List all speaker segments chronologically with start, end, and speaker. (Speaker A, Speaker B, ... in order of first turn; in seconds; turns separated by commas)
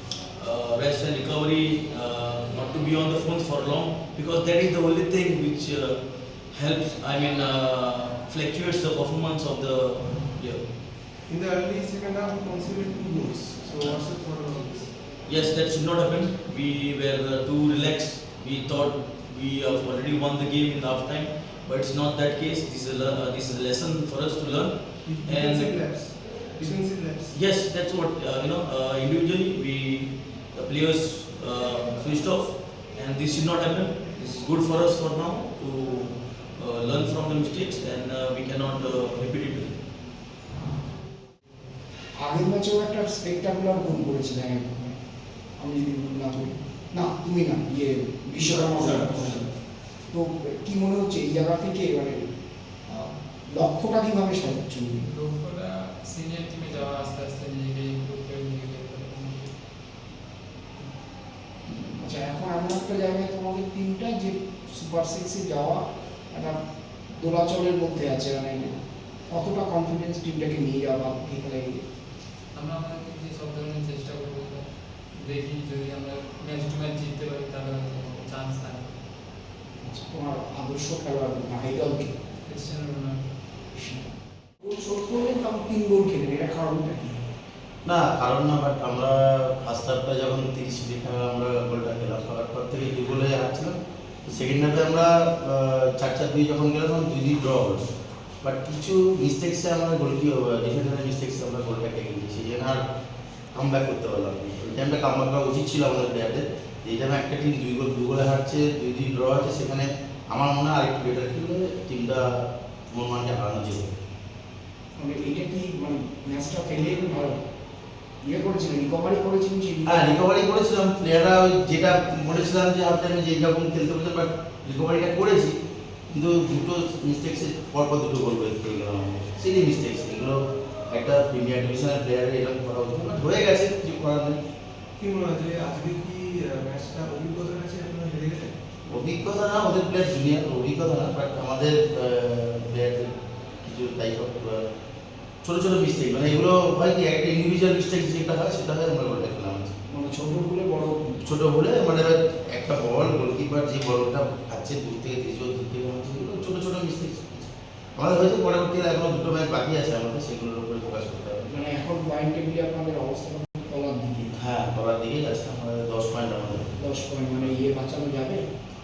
Speaker A: 0.3-10.7, Speaker B: 11.3-15.0, Speaker A: 15.2-26.0, Speaker B: 25.0-27.4, Speaker A: 26.6-39.8, Speaker C: 42.2-44.9, Speaker C: 45.6-49.4, Speaker B: 48.4-49.5, Speaker C: 50.1-52.3, Speaker C: 53.5-55.1, Speaker D: 55.0-59.5, Speaker C: 61.7-66.6, Speaker C: 67.1-68.7, Speaker C: 69.3-71.8, Speaker D: 72.5-78.9, Speaker C: 79.8-82.1, Speaker D: 82.5-83.3, Speaker C: 83.8-84.1, Speaker C: 84.6-87.2, Speaker E: 87.8-97.8, Speaker E: 98.4-102.8, Speaker E: 103.5-113.9, Speaker C: 115.0-117.4, Speaker C: 118.2-120.2, Speaker E: 119.8-125.5, Speaker E: 126.1-134.4, Speaker B: 135.0-138.8, Speaker E: 138.9-144.7, Speaker E: 145.4-149.7, Speaker C: 149.9-151.2, Speaker E: 151.2-161.5, Speaker C: 161.5-164.3, Speaker E: 164.4-166.7, Speaker C: 166.8-168.4